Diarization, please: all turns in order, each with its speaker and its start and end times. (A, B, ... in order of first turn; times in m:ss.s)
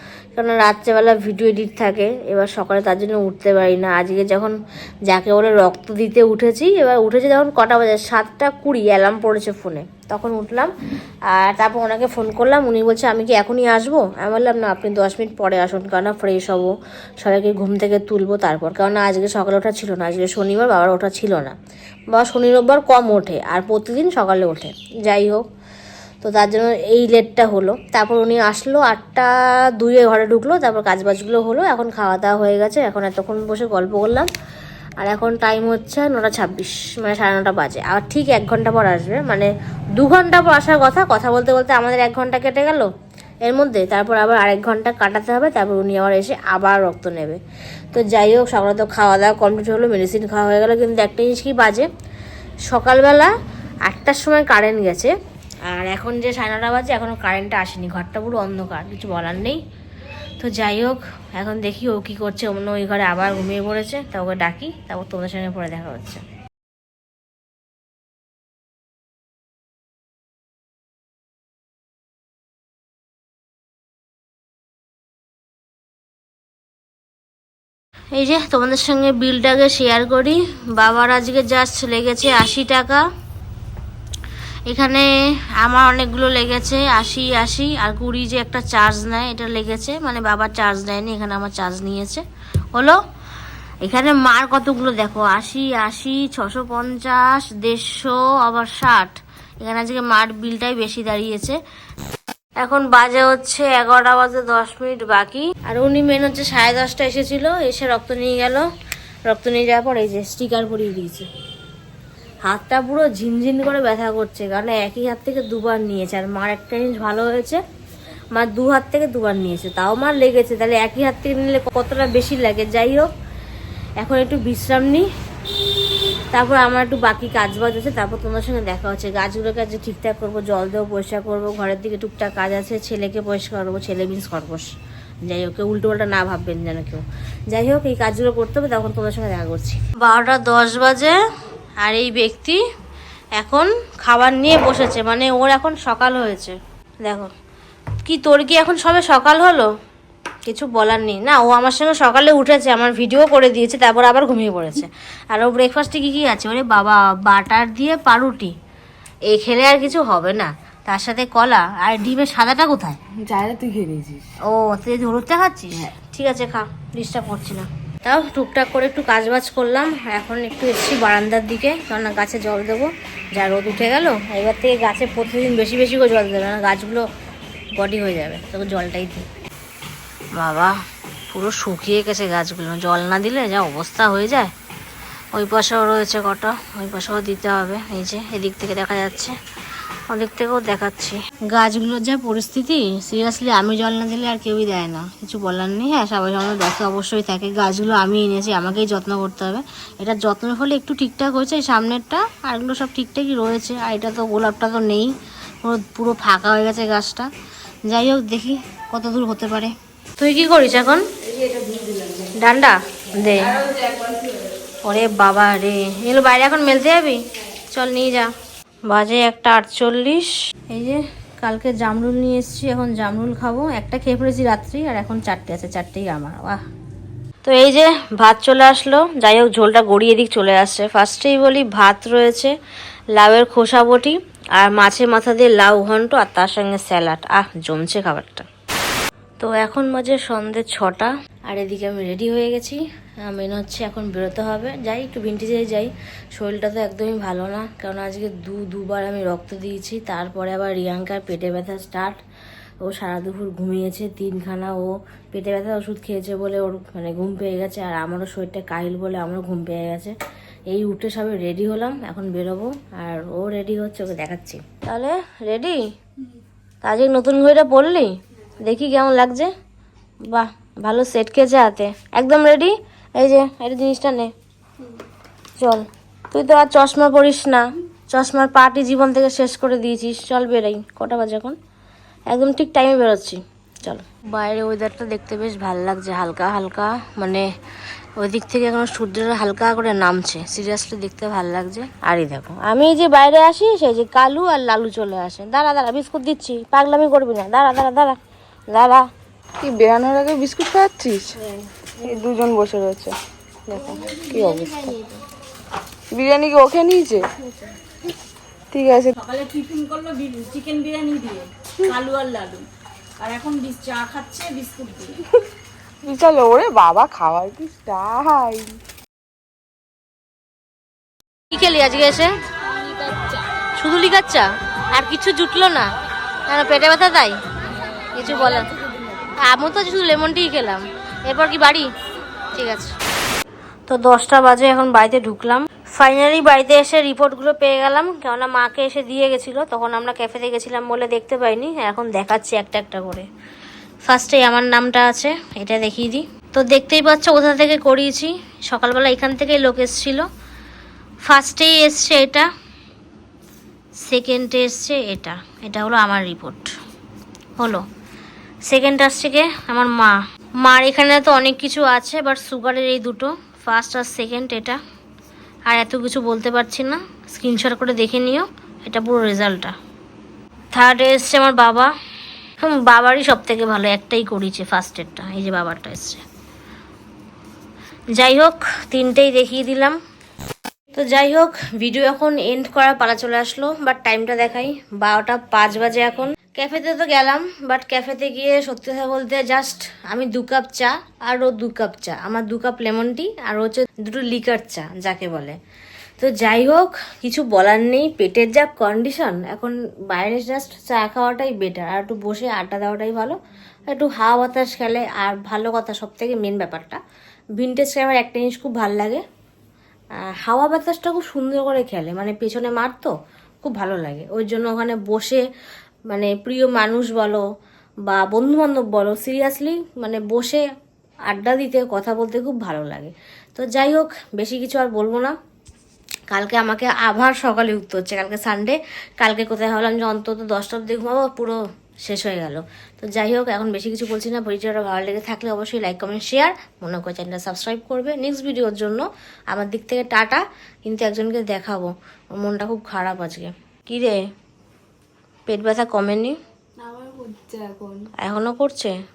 0:00.3-0:04.6 A
0:05.1-0:10.7 A
0:11.3-0:21.5 A
0:22.1-0:25.4 A
0:26.2-0:34.3 A
0:35.0-0:42.9 A
0:43.4-0:47.4 A
0:47.9-0:51.9 A
0:52.7-0:53.3 A
0:53.9-0:55.1 A
0:55.6-0:59.6 A
1:00.4-1:06.2 A
1:18.1-1:23.0 A
1:24.7-1:33.0 A
1:33.8-1:41.6 A
1:42.6-1:48.6 A
1:49.3-1:51.3 A
1:52.4-1:57.6 A
1:58.3-2:03.1 A
2:04.0-2:05.1 A
2:06.3-2:14.7 A
2:15.2-2:21.2 A
2:21.8-2:22.6 A
2:23.4-2:27.3 A
2:28.0-2:29.7 A
2:30.4-2:38.5 A
2:39.3-2:43.0 A
2:43.2-2:44.3 B
2:44.4-2:57.0 A
2:57.7-2:59.2 A
3:00.3-3:00.8 A
3:01.3-3:04.5 A
3:05.3-3:09.4 A
3:10.1-3:27.3 A
3:27.9-3:31.0 A
3:31.2-3:32.3 B
3:32.3-3:33.6 A
3:33.4-3:34.5 B
3:34.8-3:38.3 A
3:38.9-3:46.6 A
3:47.4-3:52.5 A
3:53.2-3:58.4 A
3:59.4-4:12.2 A
4:12.8-4:20.1 A
4:20.7-4:25.8 A
4:26.8-4:29.5 A
4:30.3-4:34.3 A
4:35.6-4:41.6 A
4:42.3-4:47.5 A
4:48.2-4:58.2 A
4:58.7-4:59.0 A
4:59.6-5:01.4 B
5:02.0-5:03.2 B
5:03.7-5:05.0 B
5:04.0-5:05.0 C
5:06.1-5:07.2 B
5:08.7-5:09.1 B
5:09.2-5:12.7 C
5:13.2-5:15.2 C
5:16.0-5:18.8 B
5:21.5-5:22.3 A
5:22.9-5:23.4 B
5:23.8-5:25.9 A
5:26.5-5:27.4 A
5:28.1-5:28.7 A
5:28.4-5:29.1 B
5:29.3-5:31.9 A
5:32.5-5:33.0 A
5:33.9-5:43.3 A
5:44.0-5:50.2 A
5:51.2-5:52.5 A
5:54.0-5:56.7 A
5:57.6-5:57.8 A
5:58.7-6:04.8 A
6:05.7-6:09.7 A
6:10.7-6:11.9 A
6:12.6-6:16.2 A
6:18.1-6:20.0 A
6:20.9-6:35.6 A
6:36.2-6:43.4 A
6:43.9-6:47.0 A
6:47.6-6:49.2 A
6:50.2-6:55.4 A
6:56.1-6:57.4 A
6:58.1-7:00.6 A
7:01.3-7:05.4 A
7:06.3-7:24.2 A
7:25.5-7:26.4 A
7:26.8-7:28.1 B
7:27.0-7:27.2 C
7:28.2-7:28.9 A